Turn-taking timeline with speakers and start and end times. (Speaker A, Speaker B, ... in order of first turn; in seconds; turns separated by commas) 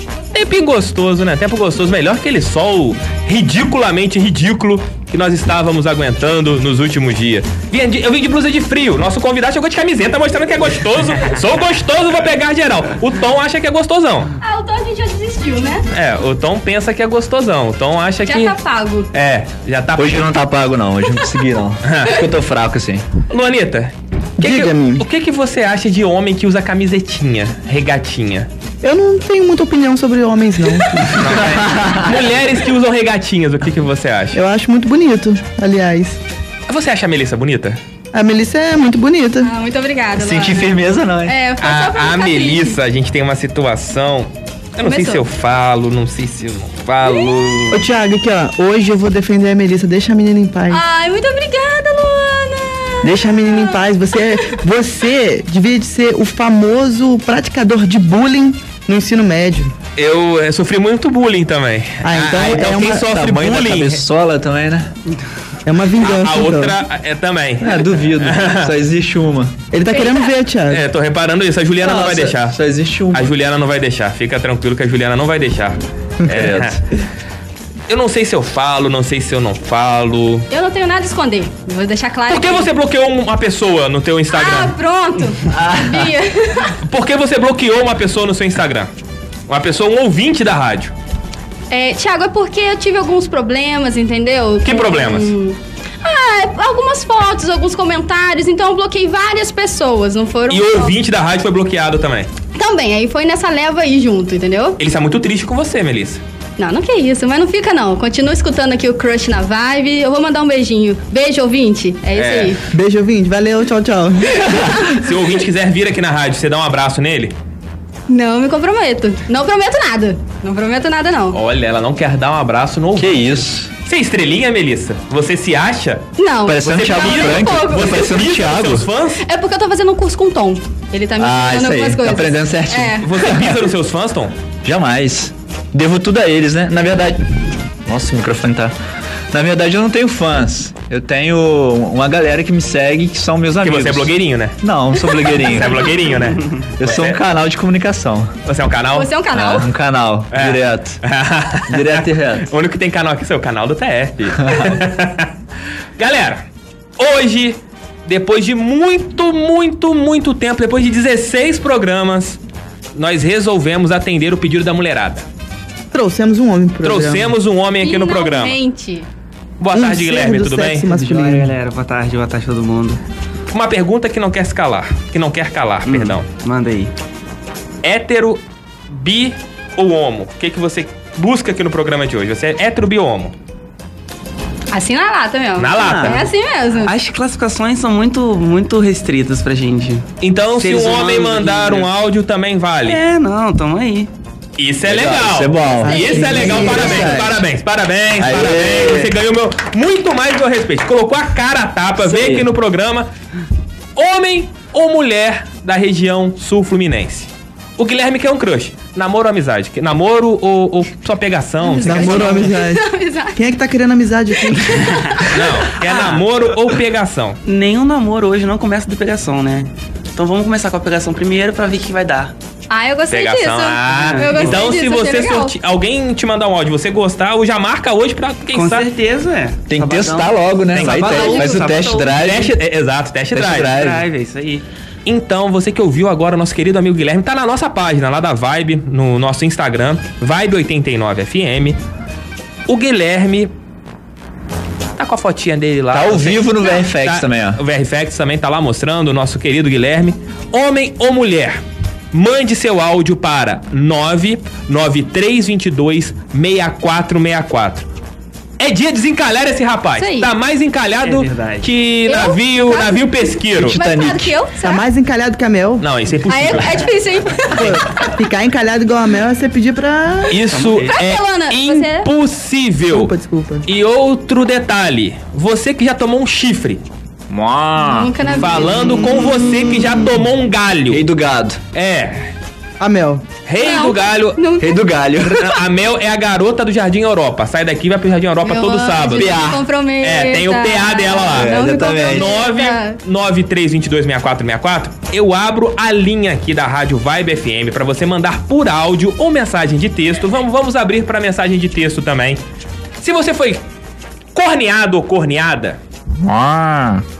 Speaker A: 0.3-14.3, Speaker B: 14.4-15.8, Speaker A: 15.9-18.6, Speaker B: 18.2-19.1, Speaker A: 19.1-20.3, Speaker C: 20.0-23.1, Speaker A: 21.8-22.3, Speaker A: 23.3-28.5, Speaker D: 24.4-25.0, Speaker D: 28.8-31.2, Speaker A: 31.1-34.4, Speaker C: 31.2-32.2, Speaker D: 34.4-36.2, Speaker A: 36.7-37.8, Speaker D: 38.1-39.5, Speaker B: 39.4-42.8, Speaker C: 40.2-41.4, Speaker A: 41.6-47.8, Speaker B: 44.8-45.2, Speaker B: 47.0-47.3, Speaker D: 47.7-50.8, Speaker B: 50.7-53.8, Speaker D: 53.0-59.7, Speaker A: 60.0-64.0, Speaker D: 62.0-63.1, Speaker C: 62.3-64.9, Speaker D: 65.7-66.8, Speaker A: 66.0-68.7, Speaker C: 67.6-69.6, Speaker D: 69.7-70.8, Speaker B: 69.9-70.3, Speaker A: 70.7-72.6, Speaker C: 71.8-73.3, Speaker A: 73.1-76.8, Speaker C: 76.3-76.8, Speaker A: 77.9-80.5, Speaker B: 80.5-82.7, Speaker A: 82.3-84.8, Speaker B: 84.3-86.8, Speaker C: 85.5-86.1, Speaker A: 86.8-88.9, Speaker A: 89.5-90.9, Speaker B: 91.7-101.0, Speaker A: 94.6-95.3, Speaker A: 100.5-102.3, Speaker B: 102.5-104.8, Speaker A: 104.8-106.2, Speaker B: 106.6-112.6, Speaker A: 112.2-112.6, Speaker D: 112.7-114.6, Speaker A: 115.0-117.3, Speaker B: 118.1-121.4, Speaker A: 121.3-123.2, Speaker C: 123.0-123.7, Speaker A: 123.9-126.1, Speaker B: 126.2-128.0, Speaker C: 126.5-128.9, Speaker A: 126.6-129.2, Speaker B: 129.2-133.1, Speaker C: 131.2-133.7, Speaker A: 133.0-134.3, Speaker C: 134.6-137.3, Speaker C: 137.9-138.7, Speaker C: 139.3-145.9, Speaker A: 143.6-144.6, Speaker A: 145.4-147.2, Speaker C: 146.8-148.3, Speaker A: 148.5-149.2, Speaker B: 149.0-149.7, Speaker C: 149.3-151.0, Speaker A: 150.3-155.3, Speaker C: 151.7-152.5, Speaker A: 156.0-156.4, Speaker A: 157.0-162.4, Speaker A: 162.9-165.3, Speaker D: 165.9-167.3, Speaker A: 166.8-168.6, Speaker B: 167.8-169.1, Speaker A: 169.6-170.9, Speaker D: 169.7-171.5, Speaker E: 170.9-173.0, Speaker A: 173.5-176.3, Speaker E: 175.9-176.9, Speaker A: 177.8-183.3, Speaker B: 184.7-186.9, Speaker A: 185.6-186.3, Speaker E: 185.8-186.2, Speaker E: 186.8-190.1, Speaker A: 190.2-193.0, Speaker E: 190.6-191.9, Speaker E: 192.8-194.1, Speaker A: 194.6-203.1, Speaker C: 194.9-197.4, Speaker D: 195.8-197.3, Speaker C: 198.2-199.2, Speaker C: 202.0-202.5, Speaker A: 204.0-212.5, Speaker B: 211.6-213.4, Speaker D: 211.8-215.0, Speaker E: 214.7-215.2, Speaker A: 215.3-217.4, Speaker E: 217.5-222.3, Speaker B: 222.7-225.6, Speaker A: 223.1-228.9, Speaker E: 223.9-224.6, Speaker E: 228.5-232.2, Speaker C: 229.7-232.6, Speaker A: 230.7-231.2, Speaker B: 231.1-231.6, Speaker A: 232.0-233.8, Speaker C: 233.3-234.1, Speaker E: 233.6-234.6, Speaker A: 235.1-241.8, Speaker A: 242.7-243.5, Speaker A: 245.0-251.6, Speaker C: 245.9-247.6, Speaker A: 252.1-257.9, Speaker A: 258.6-263.8, Speaker B: 260.0-260.3, Speaker E: 261.0-261.7, Speaker B: 262.1-264.8, Speaker C: 263.6-264.4, Speaker D: 264.6-265.9, Speaker A: 265.8-266.9, Speaker B: 266.3-268.1, Speaker D: 267.6-270.4, Speaker A: 270.3-273.1, Speaker E: 270.5-270.9, Speaker B: 270.9-272.1, Speaker D: 272.9-273.6, Speaker A: 273.6-276.8, Speaker C: 277.3-278.1, Speaker B: 277.8-279.1, Speaker A: 278.3-281.0, Speaker C: 280.9-281.6, Speaker A: 281.7-282.3, Speaker D: 282.8-283.2, Speaker A: 283.5-284.4, Speaker B: 283.6-284.8, Speaker C: 284.6-285.6, Speaker A: 285.2-302.4, Speaker B: 288.4-293.0, Speaker C: 289.1-289.6, Speaker C: 291.3-292.3, Speaker A: 303.0-303.6, Speaker A: 304.3-305.8, Speaker C: 306.2-307.0